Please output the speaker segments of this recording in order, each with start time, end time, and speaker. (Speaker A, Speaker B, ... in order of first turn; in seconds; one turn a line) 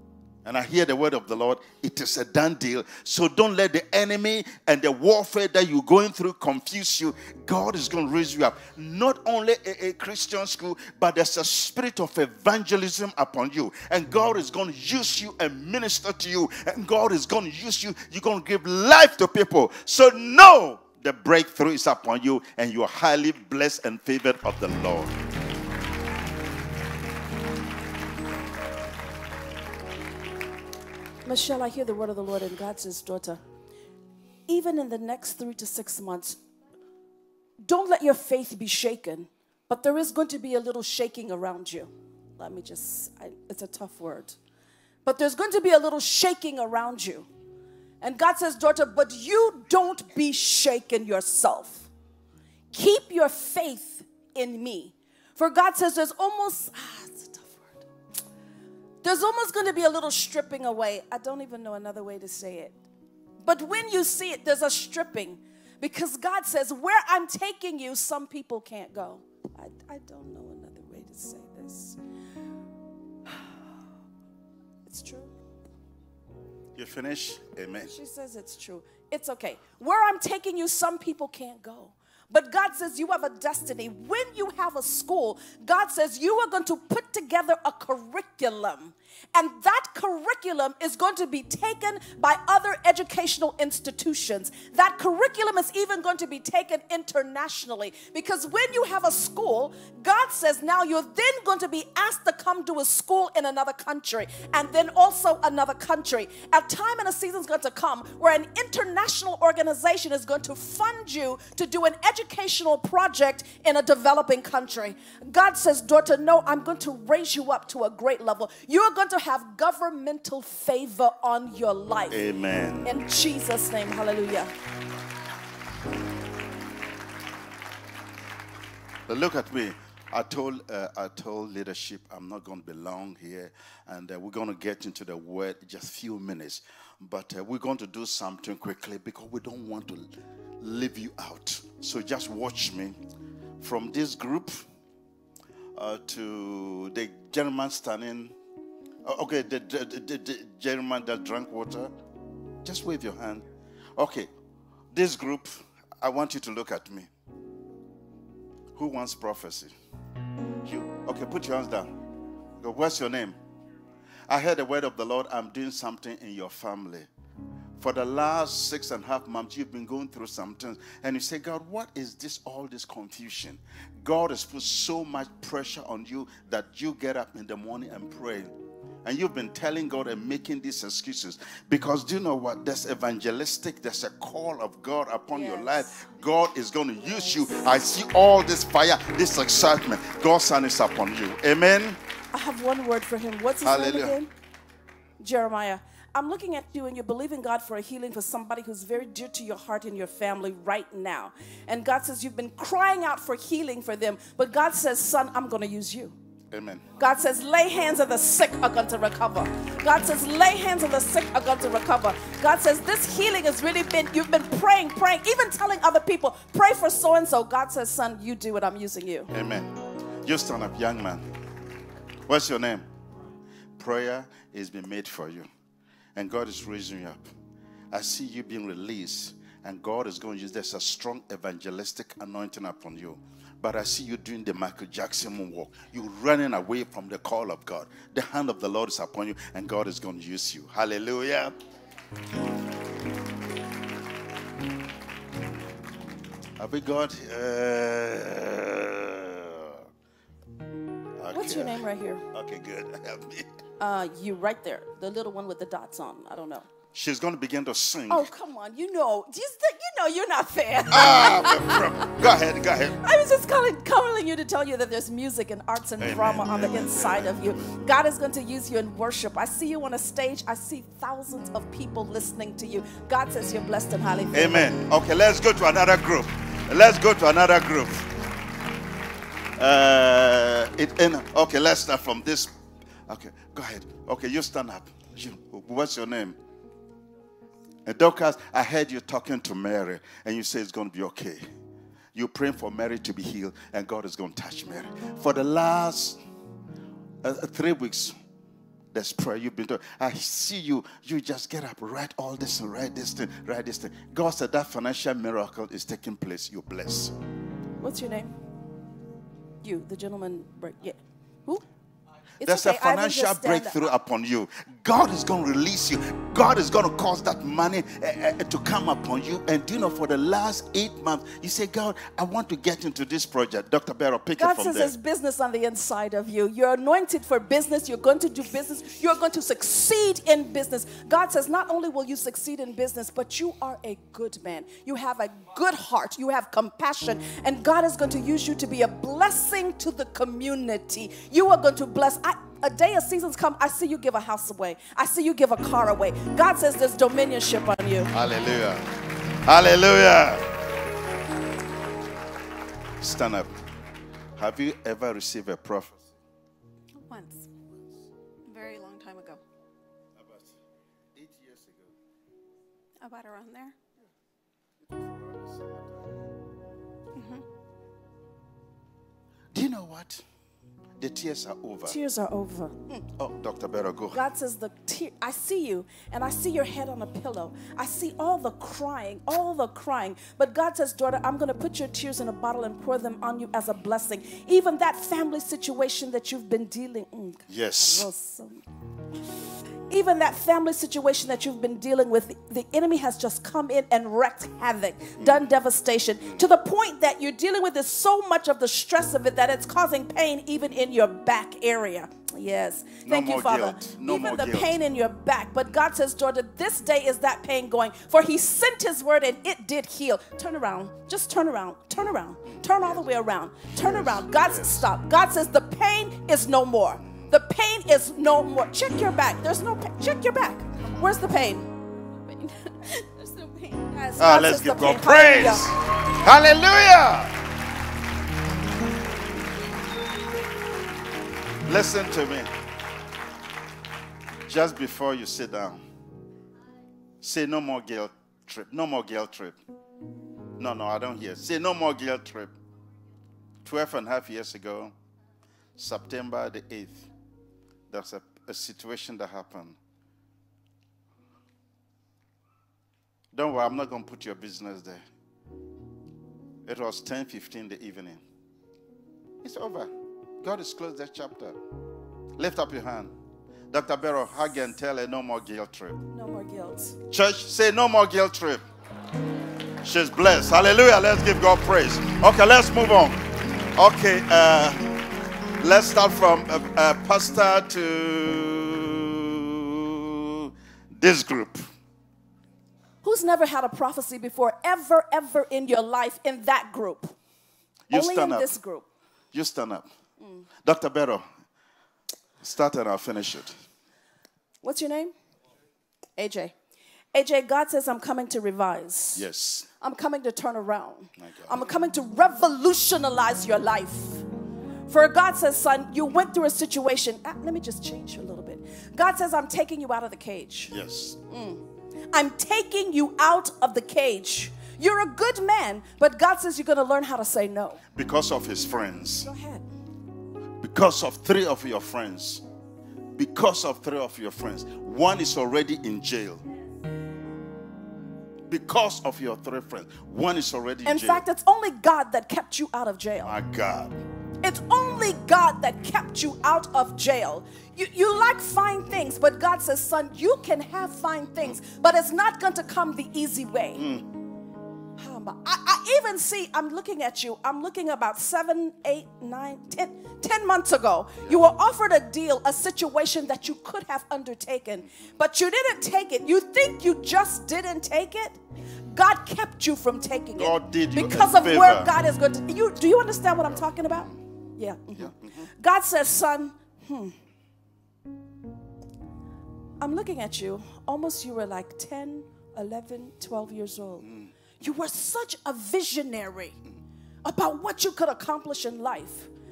Speaker A: 0.5-25.1
Speaker B: 31.2-33.4
Speaker B: 34.5-36.4
Speaker B: 37.6-44.4
Speaker B: 45.0-47.3
Speaker B: 48.0-51.9
Speaker B: 52.7-57.8
Speaker B: 59.0-62.8
Speaker B: 63.4-72.0
Speaker B: 74.9-75.3
Speaker A: 76.8-77.9
Speaker B: 77.8-122.2
Speaker A: 122.1-122.9
Speaker B: 122.8-124.5
Speaker A: 129.1-140.1
Speaker A: 140.6-143.0
Speaker A: 143.6-144.6
Speaker A: 145.8-148.3
Speaker A: 149.1-151.9
Speaker A: 152.7-153.4
Speaker A: 154.0-154.3
Speaker A: 154.9-157.1
Speaker A: 158.8-159.7
Speaker A: 160.6-161.9
Speaker A: 162.6-163.4
Speaker A: 164.3-167.1
Speaker A: 167.8-178.5
Speaker A: 179.1-192.0
Speaker B: 185.3-185.9
Speaker B: 192.3-194.3
Speaker A: 193.6-194.2
Speaker B: 195.2-206.2
Speaker A: 206.5-206.8
Speaker B: 207.0-219.3
Speaker A: 219.3-219.7
Speaker A: 220.2-221.2
Speaker A: 222.3-222.9
Speaker A: 223.8-225.5
Speaker A: 226.2-227.2
Speaker A: 227.9-241.6
Speaker A: 246.6-249.8
Speaker A: 251.2-253.5
Speaker B: 251.3-252.2
Speaker B: 253.8-256.7
Speaker A: 256.9-258.3
Speaker B: 258.1-261.9
Speaker A: 260.9-263.0
Speaker B: 263.0-274.7
Speaker A: 266.0-267.8
Speaker A: 274.3-278.1
Speaker A: 279.6-282.5
Speaker A: 283.1-286.4
Speaker A: 287.9-291.4
Speaker A: 292.1-296.2
Speaker A: 297.2-298.1
Speaker A: 298.9-307.1
Speaker B: 307.8-308.3
Speaker B: 309.6-311.6
Speaker B: 312.4-313.8
Speaker A: 312.4-324.9
Speaker B: 324.4-348.1
Speaker A: 348.1-348.8
Speaker A: 349.4-350.4
Speaker A: 353.0-353.5
Speaker A: 354.4-356.0
Speaker C: 357.0-357.5
Speaker C: 358.5-359.4
Speaker A: 360.2-360.5
Speaker A: 361.2-361.9
Speaker C: 363.0-363.7
Speaker A: 364.9-365.9
Speaker C: 367.2-367.4
Speaker A: 369.5-370.2
Speaker A: 371.0-372.0
Speaker B: 371.9-373.1
Speaker A: 373.2-374.2
Speaker B: 374.1-388.6
Speaker A: 387.5-388.1
Speaker B: 389.9-421.7
Speaker A: 403.0-404.8
Speaker A: 412.4-413.1
Speaker A: 413.7-414.9
Speaker A: 417.0-417.3
Speaker C: 423.2-423.7
Speaker B: 423.7-425.7
Speaker A: 424.2-427.3
Speaker A: 431.7-432.5
Speaker A: 434.5-435.8
Speaker A: 437.2-439.6
Speaker A: 440.6-442.5
Speaker A: 443.6-444.9
Speaker A: 445.8-447.1
Speaker A: 447.9-449.8
Speaker A: 453.3-455.0
Speaker A: 456.7-458.2
Speaker A: 459.4-459.9
Speaker A: 460.4-461.6
Speaker A: 462.4-463.1
Speaker A: 463.7-466.0
Speaker B: 466.1-467.0
Speaker A: 467.1-468.6
Speaker A: 469.8-473.2
Speaker A: 473.8-474.8
Speaker A: 475.6-481.7
Speaker B: 483.0-487.1
Speaker A: 487.9-488.5
Speaker B: 487.9-488.9
Speaker A: 489.3-489.9
Speaker B: 490.2-490.5
Speaker A: 490.6-491.2
Speaker A: 492.4-493.6
Speaker B: 494.6-495.1
Speaker B: 496.2-496.5
Speaker B: 497.1-499.3
Speaker A: 499.1-499.7
Speaker B: 499.8-504.2
Speaker A: 501.2-501.6
Speaker B: 504.9-510.7
Speaker A: 510.7-511.2
Speaker B: 511.3-517.8
Speaker A: 518.0-519.3
Speaker B: 519.2-519.6
Speaker A: 520.6-522.4
Speaker A: 523.2-526.4
Speaker A: 528.5-531.2
Speaker B: 530.9-533.4
Speaker A: 533.2-533.9
Speaker B: 534.4-543.8
Speaker A: 543.8-544.1
Speaker B: 545.0-567.1
Speaker A: 554.9-555.1
Speaker A: 560.4-561.9
Speaker A: 565.0-565.5
Speaker B: 569.8-574.1
Speaker A: 574.0-574.3
Speaker B: 574.6-576.6
Speaker B: 577.2-579.3